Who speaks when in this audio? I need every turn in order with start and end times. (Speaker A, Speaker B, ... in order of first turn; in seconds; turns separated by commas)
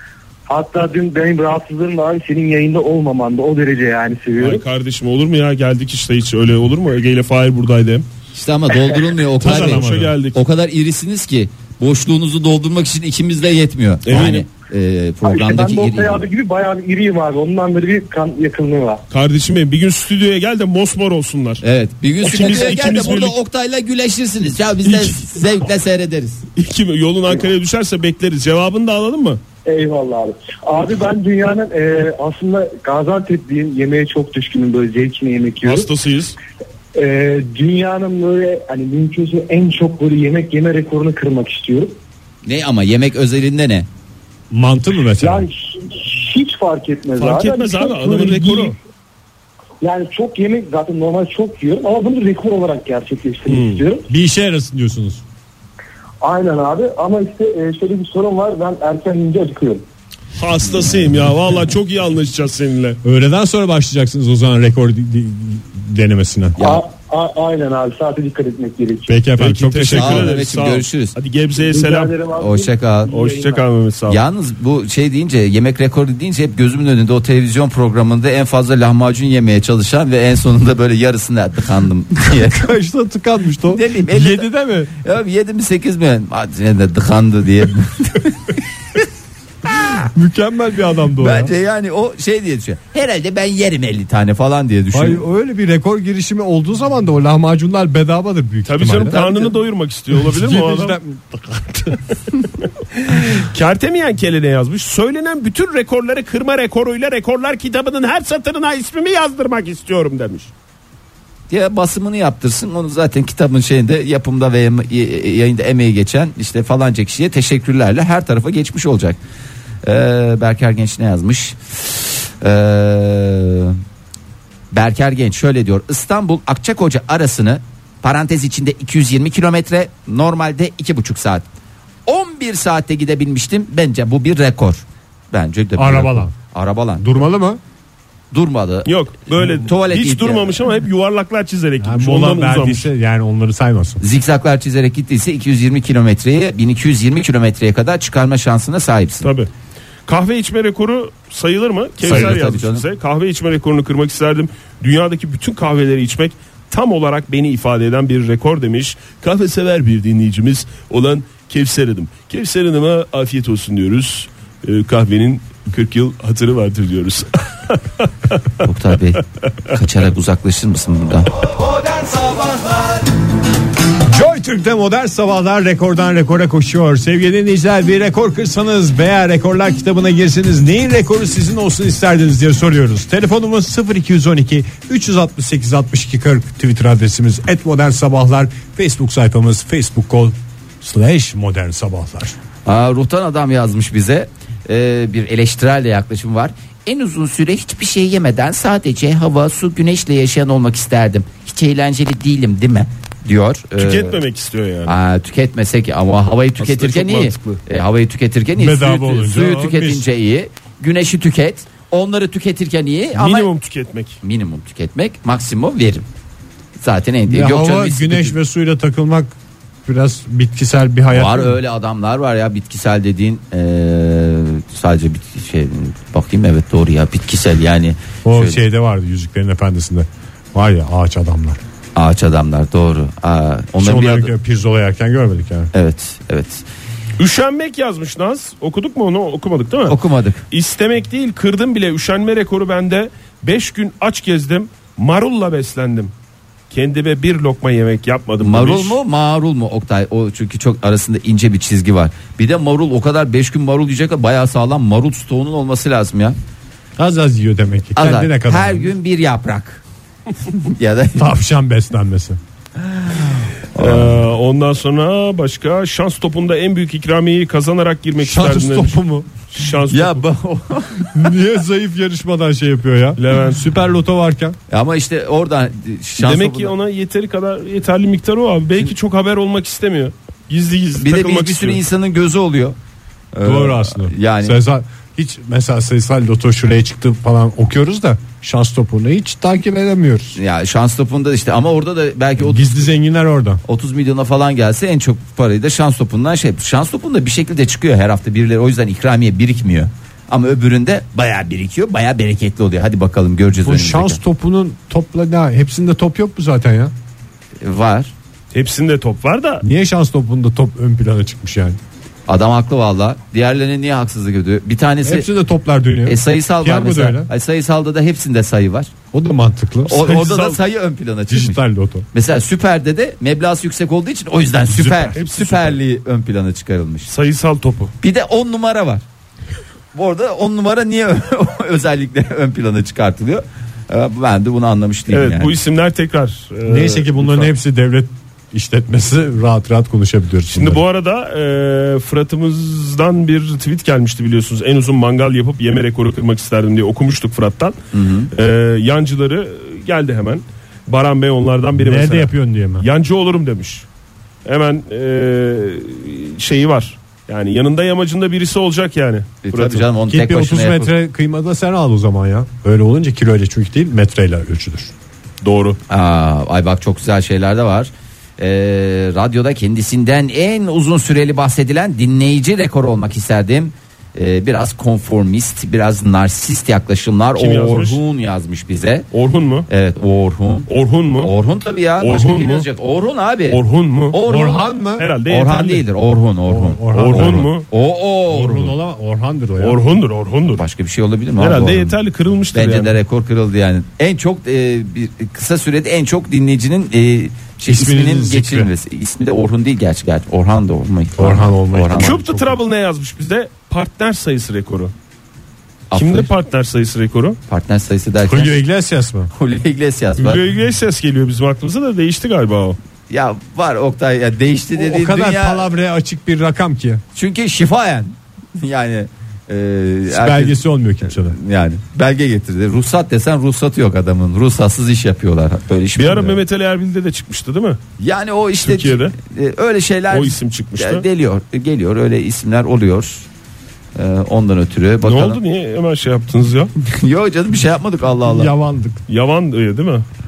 Speaker A: 0.5-4.6, Speaker B: 4.4-8.0, Speaker C: 8.3-16.2, Speaker B: 9.4-10.4, Speaker D: 9.4-10.1, Speaker B: 14.1-14.4, Speaker A: 15.2-19.0, Speaker B: 19.1-21.6, Speaker C: 21.6-26.4, Speaker B: 22.2-23.4, Speaker B: 26.6-29.4, Speaker A: 29.6-35.9, Speaker B: 35.6-36.4, Speaker A: 36.9-42.0, Speaker C: 42.4-43.9, Speaker D: 44.5-45.5, Speaker A: 45.2-48.8, Speaker B: 47.2-48.8, Speaker A: 49.8-54.1, Speaker B: 53.5-53.8, Speaker D: 54.1-55.2, Speaker A: 56.2-59.8, Speaker B: 60.4-63.0, Speaker D: 63.0-66.6, Speaker A: 66.6-69.2, Speaker D: 69.1-70.4, Speaker B: 69.4-72.2, Speaker C: 69.9-71.1, Speaker A: 71.5-73.6, Speaker C: 72.3-73.1, Speaker B: 73.1-74.2, Speaker C: 74.1-82.7, Speaker D: 82.4-84.9, Speaker C: 83.7-88.4, Speaker D: 90.1-91.5, Speaker C: 91.2-95.2, Speaker D: 94.9-99.2, Speaker B: 98.6-101.0, Speaker C: 99.1-99.5, Speaker D: 100.1-102.5, Speaker B: 103.0-110.5, Speaker C: 111.5-119.2, Speaker C: 119.8-123.8, Speaker C: 124.7-131.4, Speaker C: 132.1-137.1, Speaker D: 135.8-136.3, Speaker D: 137.0-137.6, Speaker C: 138.3-140.6, Speaker B: 138.8-142.9, Speaker D: 141.8-144.0, Speaker C: 144.0-149.3, Speaker B: 149.2-149.5, Speaker B: 150.1-168.4, Speaker C: 152.0-152.8, Speaker C: 168.6-171.3, Speaker D: 174.0-192.3, Speaker C: 192.7-204.2, Speaker B: 203.8-204.9, Speaker C: 204.8-213.5, Speaker B: 206.6-207.6, Speaker D: 208.6-210.1, Speaker B: 213.1-214.2, Speaker C: 214.2-216.0, Speaker C: 216.8-218.3, Speaker D: 217.3-219.3, Speaker D: 219.8-221.6, Speaker C: 221.1-228.6, Speaker D: 228.2-231.6, Speaker C: 231.9-234.3, Speaker D: 233.8-235.7, Speaker C: 235.7-236.6, Speaker B: 237.2-240.0, Speaker C: 239.9-240.4, Speaker B: 240.5-246.1, Speaker B: 246.7-249.0, Speaker C: 248.4-256.4, Speaker D: 257.0-258.9, Speaker C: 257.9-259.8, Speaker C: 260.4-261.3, Speaker D: 261.2-262.4, Speaker C: 262.9-264.2, Speaker B: 263.8-270.2, Speaker D: 268.2-269.3, Speaker C: 269.9-271.2, Speaker D: 271.1-274.6, Speaker B: 273.2-273.6, Speaker C: 274.7-276.7, Speaker B: 276.2-281.8, Speaker C: 281.0-282.7, Speaker C: 283.3-284.6, Speaker D: 283.4-290.4, Speaker C: 290.4-292.9, Speaker D: 292.4-293.6, Speaker C: 293.6-304.2, Speaker D: 303.6-306.9, Speaker C: 307.6-308.1, Speaker B: 308.5-309.6, Speaker D: 309.6-311.8, Speaker C: 312.3-315.3, Speaker D: 315.0-317.3, Speaker C: 316.1-318.9, Speaker D: 319.1-320.6, Speaker C: 319.9-327.1, Speaker D: 321.3-322.1, Speaker D: 324.7-325.3, Speaker B: 325.1-325.8, Speaker B: 327.1-327.9, Speaker C: 328.0-329.0, Speaker C: 329.9-335.5, Speaker B: 335.1-337.5, Speaker D: 336.7-340.8, Speaker B: 340.5-347.8, Speaker C: 347.9-348.3, Speaker B: 348.3-353.9, Speaker D: 351.7-352.9, Speaker B: 354.4-359.9, Speaker C: 359.4-360.9, Speaker D: 360.1-364.9, Speaker B: 365.4-365.8, Speaker C: 365.9-379.1, Speaker B: 377.4-378.0, Speaker B: 379.1-379.7, Speaker C: 379.7-380.7, Speaker B: 380.7-381.3, Speaker C: 381.2-383.6, Speaker B: 382.0-382.6, Speaker B: 383.5-384.2, Speaker C: 384.1-384.7, Speaker D: 384.2-385.1, Speaker B: 385.0-385.8, Speaker C: 385.3-388.7, Speaker D: 386.5-387.5, Speaker B: 386.9-387.6, Speaker D: 388.3-389.8, Speaker B: 389.6-390.6, Speaker C: 390.5-391.9, Speaker B: 391.4-392.9, Speaker C: 392.5-402.1, Speaker D: 397.6-398.7, Speaker D: 401.2-402.6, Speaker B: 401.9-404.9, Speaker C: 405.9-406.3, Speaker B: 405.9-407.4, Speaker C: 407.5-408.6, Speaker D: 408.2-409.3, Speaker C: 409.3-410.4, Speaker B: 410.2-412.8, Speaker C: 413.1-415.7, Speaker D: 414.8-417.0, Speaker C: 417.1-426.4, Speaker D: 420.1-421.4, Speaker B: 425.9-427.8, Speaker C: 428.0-433.2, Speaker B: 428.6-429.1, Speaker B: 430.1-431.0, Speaker C: 433.9-435.4, Speaker B: 435.0-436.7, Speaker C: 436.8-438.5, Speaker D: 438.3-439.0, Speaker B: 439.1-440.1